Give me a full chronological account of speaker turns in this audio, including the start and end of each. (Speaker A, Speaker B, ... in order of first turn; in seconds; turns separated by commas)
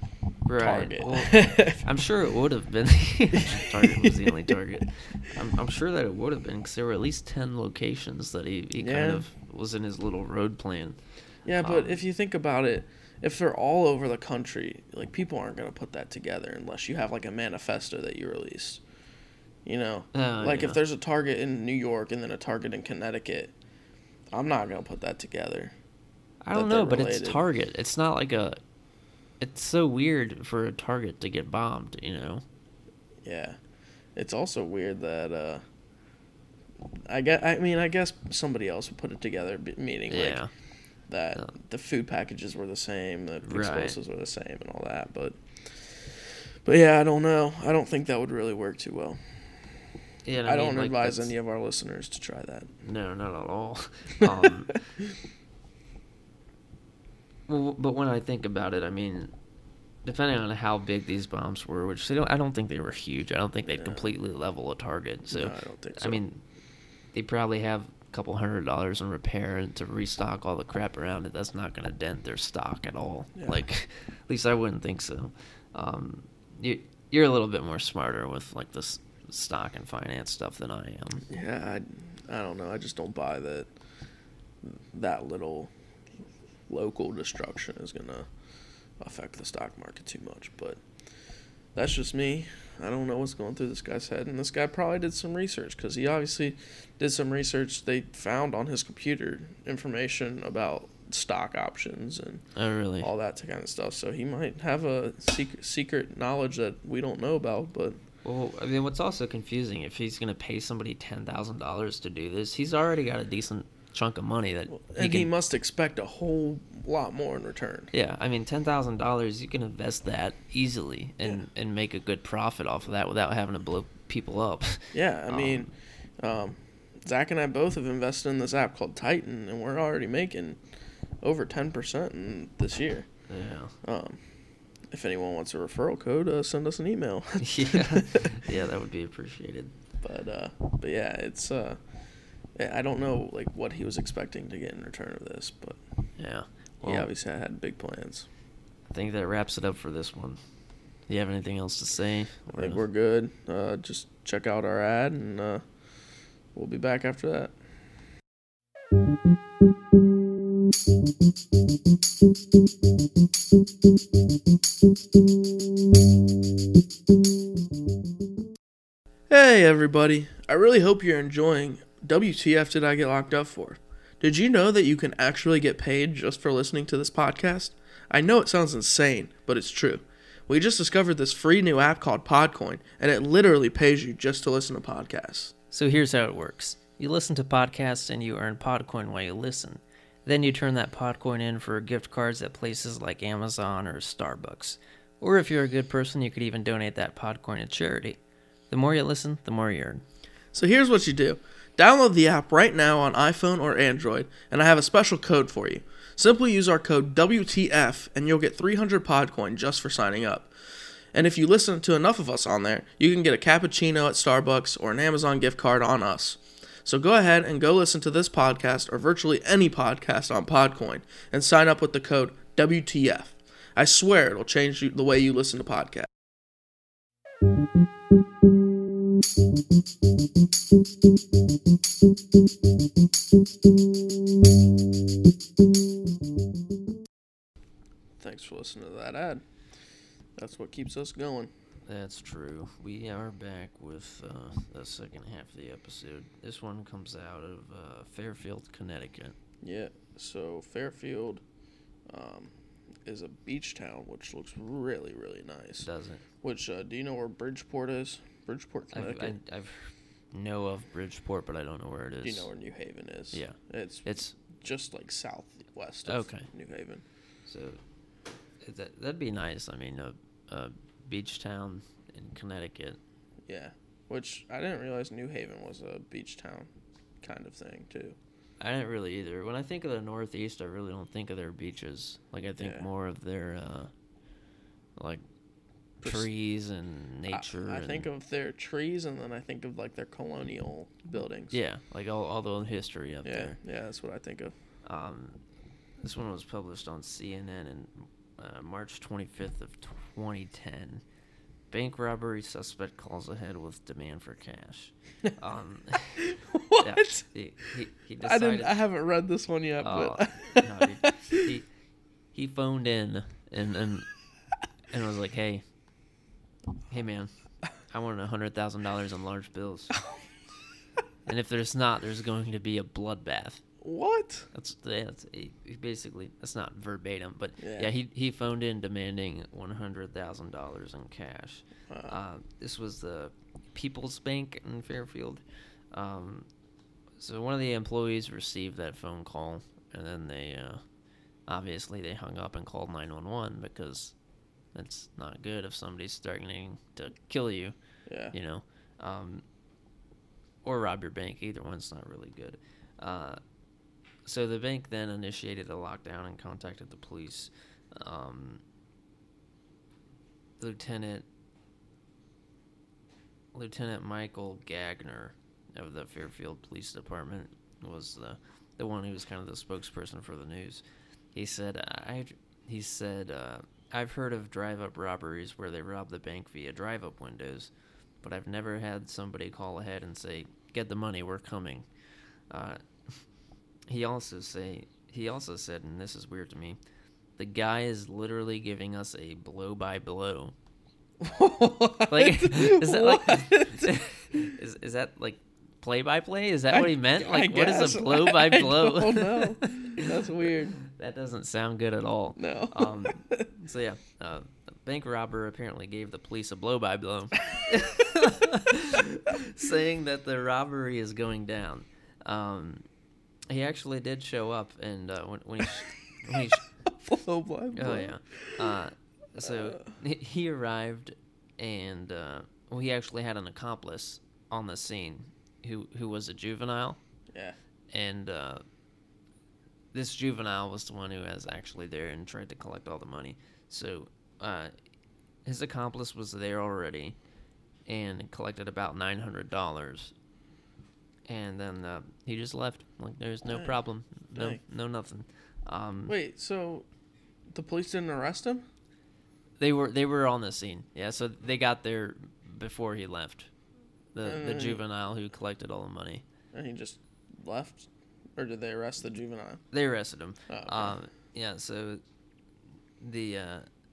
Speaker A: 0.5-11.0, Speaker B: 0.6-1.9, Speaker B: 3.4-4.6, Speaker B: 8.8-9.2, Speaker B: 11.4-18.8, Speaker A: 11.6-12.0, Speaker B: 19.6-23.5, Speaker A: 20.1-20.8, Speaker B: 24.3-25.7, Speaker A: 26.4-28.6, Speaker B: 26.5-27.4, Speaker A: 29.4-32.4, Speaker B: 33.2-33.6, Speaker B: 34.1-35.6, Speaker B: 37.1-40.4, Speaker A: 40.1-40.5, Speaker B: 41.1-49.4, Speaker A: 43.4-44.0, Speaker A: 50.2-51.3, Speaker B: 50.4-52.7, Speaker A: 52.8-54.8, Speaker B: 54.2-55.1, Speaker A: 57.5-59.3, Speaker A: 60.0-66.4, Speaker B: 63.7-64.1, Speaker B: 65.3-66.2, Speaker A: 67.1-81.2, Speaker B: 73.3-73.6, Speaker B: 81.3-83.7, Speaker B: 84.6-85.7, Speaker B: 86.7-88.3, Speaker B: 89.0-90.8, Speaker B: 91.7-102.4, Speaker A: 102.5-103.1, Speaker B: 103.0-108.0, Speaker A: 108.2-115.3, Speaker B: 114.7-117.9, Speaker A: 117.9-125.7, Speaker B: 124.9-130.6, Speaker B: 131.2-133.1, Speaker A: 133.3-133.7, Speaker B: 133.8-134.2, Speaker B: 134.9-138.4, Speaker A: 137.4-139.7, Speaker B: 140.0-141.8, Speaker B: 142.6-145.8, Speaker A: 146.2-147.1, Speaker B: 146.8-148.3, Speaker A: 148.9-150.4, Speaker A: 151.1-152.8, Speaker B: 152.5-155.6, Speaker B: 156.5-157.5, Speaker B: 169.3-185.5, Speaker A: 185.7-198.2, Speaker A: 198.7-200.0, Speaker B: 200.5-210.5, Speaker B: 211.1-226.1, Speaker B: 238.2-239.4, Speaker B: 240.4-241.5, Speaker A: 241.8-249.3, Speaker B: 249.6-251.4, Speaker B: 252.1-252.5, Speaker B: 253.0-255.9, Speaker A: 255.8-256.2, Speaker B: 256.4-259.4, Speaker A: 258.9-262.5, Speaker B: 262.2-267.0, Speaker A: 263.3-264.4, Speaker A: 266.1-266.5, Speaker A: 267.4-267.8, Speaker A: 268.6-273.0, Speaker B: 273.5-276.7, Speaker B: 277.2-278.2, Speaker A: 278.6-283.9, Speaker B: 282.6-282.9, Speaker A: 285.0-285.2, Speaker B: 286.0-286.3, Speaker A: 286.0-288.1, Speaker B: 287.3-291.6, Speaker A: 291.5-293.6, Speaker B: 293.2-294.5, Speaker A: 294.9-295.4, Speaker A: 296.0-301.0, Speaker A: 301.7-306.2, Speaker B: 306.2-307.2, Speaker A: 306.8-308.8, Speaker B: 308.2-311.5, Speaker A: 309.8-311.7, Speaker A: 312.3-314.1, Speaker A: 314.9-315.6, Speaker A: 316.9-317.3, Speaker A: 317.9-320.0, Speaker A: 321.2-323.6, Speaker B: 323.8-324.5, Speaker A: 324.5-336.5, Speaker B: 327.6-327.9, Speaker B: 331.9-332.2, Speaker A: 337.2-340.8, Speaker A: 341.5-344.1, Speaker A: 344.7-347.8, Speaker B: 348.1-348.3, Speaker A: 348.3-349.4, Speaker A: 350.6-353.4, Speaker A: 354.2-358.6, Speaker A: 360.6-361.2, Speaker A: 363.5-370.8, Speaker A: 371.3-377.7, Speaker A: 378.2-381.9, Speaker A: 382.5-383.2, Speaker A: 383.9-386.8, Speaker A: 387.4-390.5, Speaker B: 391.2-394.0, Speaker A: 392.1-400.1, Speaker B: 396.7-400.8, Speaker A: 400.8-412.8, Speaker B: 402.4-403.5, Speaker A: 413.5-416.6, Speaker B: 416.9-418.2, Speaker A: 417.7-427.0, Speaker B: 419.4-419.8, Speaker A: 427.9-428.6, Speaker A: 429.9-434.7, Speaker A: 435.4-437.1, Speaker A: 437.9-440.1, Speaker A: 441.3-446.1, Speaker B: 443.5-443.7, Speaker B: 444.3-444.6, Speaker B: 446.1-446.9, Speaker B: 447.5-448.6, Speaker A: 449.6-453.5, Speaker A: 454.1-456.2, Speaker B: 454.2-454.8, Speaker B: 456.5-459.6, Speaker A: 459.7-462.0, Speaker B: 460.5-460.9, Speaker A: 463.0-463.6